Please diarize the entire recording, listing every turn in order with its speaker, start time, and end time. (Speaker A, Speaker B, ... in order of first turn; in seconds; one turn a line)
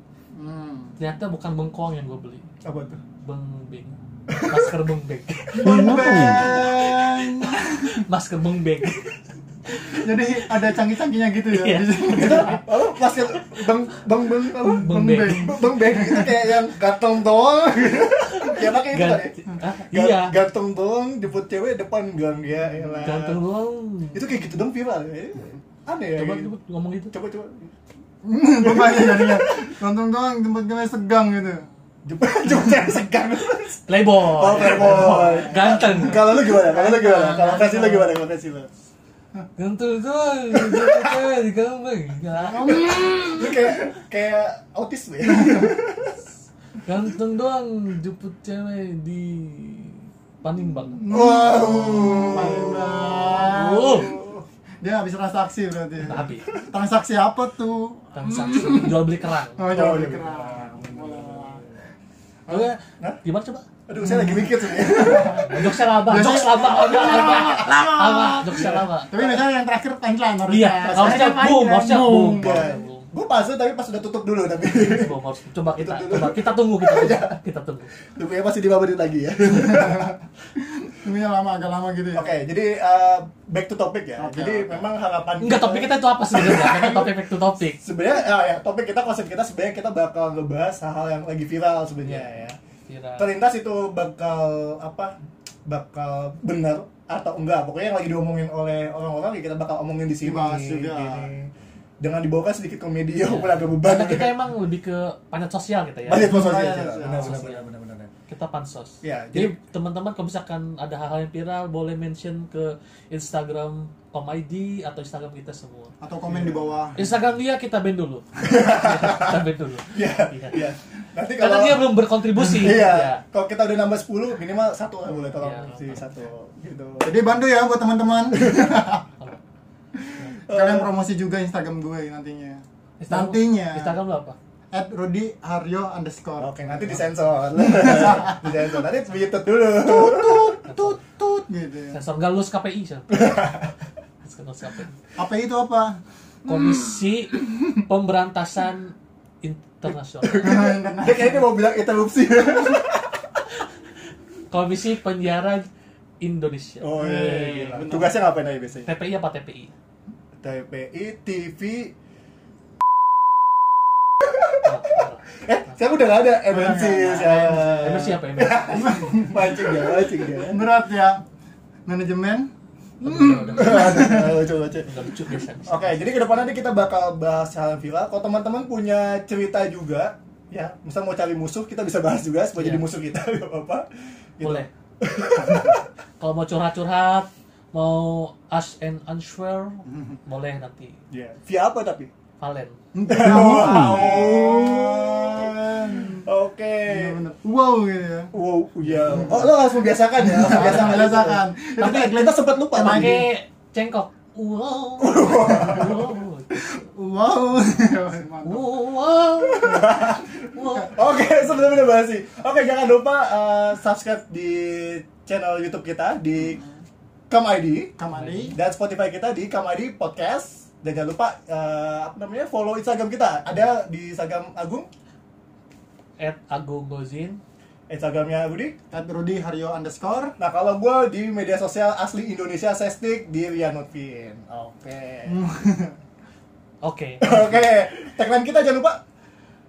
Speaker A: 0.3-1.0
Speaker B: 1.0-2.4
Speaker C: 2.6-3.0
Speaker B: 3.2-4.0
Speaker C: 4.3-4.6
Speaker B: 4.5-6.7
Speaker C: 5.5-7.4
Speaker A: 5.6-8.0
Speaker B: 7.6-9.2
Speaker A: 9.8-12.7
Speaker B: 11.5-13.8
Speaker C: 12.1-19.4
Speaker B: 14.7-15.7
Speaker A: 14.7-16.4
Speaker B: 18.3-20.4
Speaker C: 19.9-23.4
Speaker B: 23.0-24.3
Speaker C: 24.1-26.5
Speaker B: 26.1-27.1
Speaker C: 27.1-27.7
Speaker A: 28.2-31.7
Speaker C: 28.6-29.8
Speaker C: 32.0-38.7
Speaker B: 33.9-36.3
Speaker A: 35.1-38.2
Speaker B: 39.6-43.3
Speaker C: 40.5-41.1
Speaker A: 42.4-43.7
Speaker C: 43.2-46.1
Speaker B: 46.9-51.1
Speaker A: 51.0-54.1
Speaker C: 51.1-54.4
Speaker B: 53.3-54.1
Speaker A: 54.8-61.7
Speaker B: 56.0-56.5
Speaker B: 58.1-59.6
Speaker C: 59.7-61.8
Speaker A: 62.5-62.7
Speaker B: 62.5-63.7
Speaker C: 63.9-65.7
Speaker A: 64.0-65.5
Speaker B: 65.2-69.1
Speaker A: 66.0-72.8
Speaker C: 66.6-67.9
Speaker C: 68.5-69.4
Speaker B: 70.5-73.1
Speaker C: 70.8-71.4
Speaker C: 72.2-75.1
Speaker B: 74.7-77.9
Speaker C: 75.8-77.4
Speaker C: 78.2-80.2
Speaker A: 79.5-82.4
Speaker C: 82.2-87.1
Speaker A: 84.2-84.9
Speaker B: 85.4-87.8
Speaker C: 87.8-92.6
Speaker B: 92.0-92.3
Speaker B: 92.9-93.3
Speaker C: 93.2-95.1
Speaker C: 95.7-104.3
Speaker A: 100.2-101.3
Speaker B: 103.2-107.7
Speaker C: 106.1-108.1
Speaker A: 106.2-107.5
Speaker B: 108.3-115.9
Speaker C: 109.0-109.6
Speaker A: 116.0-117.1
Speaker C: 116.2-116.7
Speaker B: 117.0-120.6
Speaker C: 118.5-119.4
Speaker C: 119.9-121.9
Speaker B: 121.4-123.2
Speaker C: 122.4-127.2
Speaker B: 125.4-126.0
Speaker A: 127.0-129.1
Speaker C: 128.3-128.8
Speaker A: 130.0-134.0
Speaker C: 130.3-130.9
Speaker B: 133.0-134.4
Speaker A: 134.7-137.0
Speaker C: 136.4-140.7
Speaker A: 137.6-138.5
Speaker A: 139.8-142.0
Speaker B: 140.7-141.0
Speaker B: 141.9-143.3
Speaker C: 143.1-143.7
Speaker B: 144.2-144.9
Speaker A: 145.2-147.7
Speaker B: 146.5-150.7
Speaker C: 150.2-153.4
Speaker A: 150.4-151.5
Speaker B: 154.5-155.7
Speaker B: 156.2-158.0
Speaker C: 156.8-158.9
Speaker A: 157.0-158.1
Speaker B: 158.8-159.7
Speaker C: 160.4-161.9
Speaker B: 164.6-165.8
Speaker C: 165.4-170.6
Speaker A: 166.5-168.2
Speaker B: 167.8-169.1
Speaker A: 168.7-171.2
Speaker A: 171.9-174.4
Speaker B: 173.0-174.2
Speaker C: 173.5-174.9
Speaker B: 174.8-176.1
Speaker C: 175.7-183.9
Speaker B: 182.6-182.9
Speaker C: 184.4-185.8
Speaker B: 184.4-184.7
Speaker B: 186.2-191.0
Speaker C: 191.1-192.1
Speaker B: 192.4-192.8
Speaker A: 192.9-196.2
Speaker C: 193.1-197.2
Speaker A: 196.9-198.3
Speaker C: 198.3-203.3
Speaker A: 199.1-199.6
Speaker A: 200.1-203.2
Speaker B: 200.6-201.1
Speaker B: 201.8-202.2
Speaker B: 202.7-206.5
Speaker C: 205.0-206.1
Speaker A: 205.6-205.9
Speaker A: 206.5-208.8
Speaker B: 208.4-209.8
Speaker C: 209.4-210.4
Speaker B: 210.5-210.9
Speaker C: 210.9-216.6
Speaker C: 217.3-218.0
Speaker A: 218.0-218.6
Speaker B: 218.1-218.5
Speaker C: 218.5-224.9
Speaker B: 226.2-227.4
Speaker C: 227.9-228.8
Speaker A: 228.9-230.3
Speaker C: 230.4-235.4
Speaker A: 235.3-236.0
Speaker B: 236.8-237.6
Speaker C: 237.2-239.0